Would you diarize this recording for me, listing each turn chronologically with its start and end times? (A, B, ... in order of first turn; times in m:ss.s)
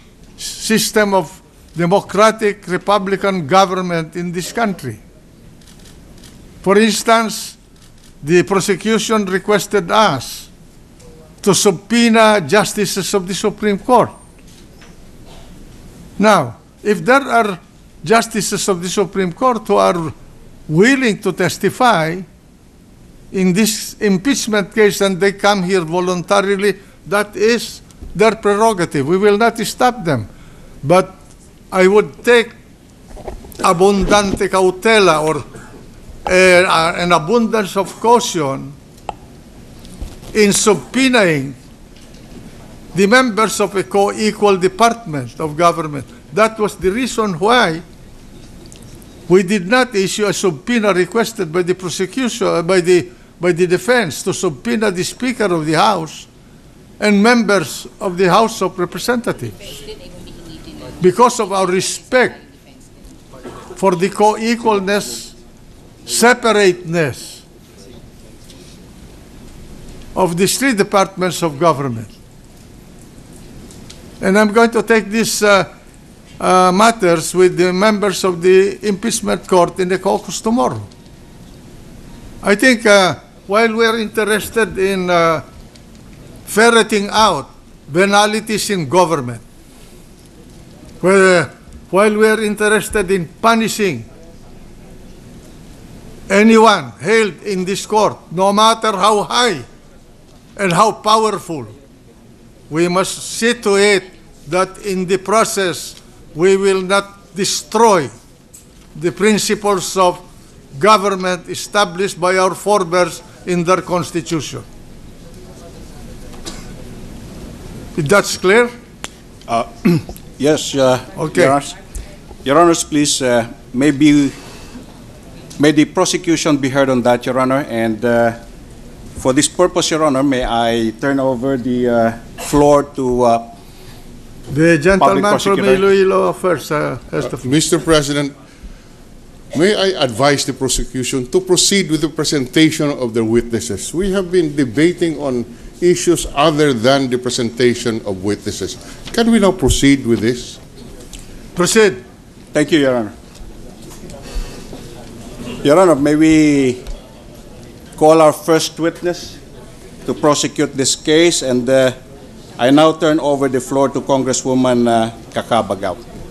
0:00.4-0:05.0 A
0:06.6-0:07.6 A
0:08.2-0:10.5 A
0:11.4-0:14.2 A
0:16.2-0:20.2 A
0:20.7-0:22.3 A
0:23.3-0:30.3 A
0:30.8-0:31.2 A
0:31.7-0:32.6 A
0:33.6-0:35.4 A
0:36.2-0:38.8 A
0:40.3-0:41.6 A
0:42.9-0:47.8 A
0:49.3-0:56.3 A
0:57.0-0:59.6 A
1:01.0-1:02.4 A
1:03.8-1:05.4 A
1:06.1-1:07.4 A
1:10.2-1:12.1 A
1:14.2-1:15.7 A
1:16.4-1:20.9 A
1:22.4-1:25.4 A
1:26.5-1:29.4 A
1:31.0-1:34.1 A
1:36.3-1:39.7 A
1:40.6-1:41.7 A
1:42.7-1:48.1 A
1:49.0-1:50.2 A
1:50.7-1:54.6 A
1:58.0-1:58.7 A
1:59.5-2:01.7 B
2:01.2-2:01.6 A
2:02.4-2:04.3 B
2:05.6-2:08.4 B
2:09.2-2:13.4 B
2:14.5-2:17.5 A
2:15.0-2:15.8 B
2:17.3-2:18.3 C
2:19.5-2:30.6 C
2:31.6-2:32.0 A
2:32.5-2:33.1 B
2:35.6-2:36.8 B
2:38.0-2:39.3 B
2:40.1-2:41.9 B
2:42.6-2:46.0 B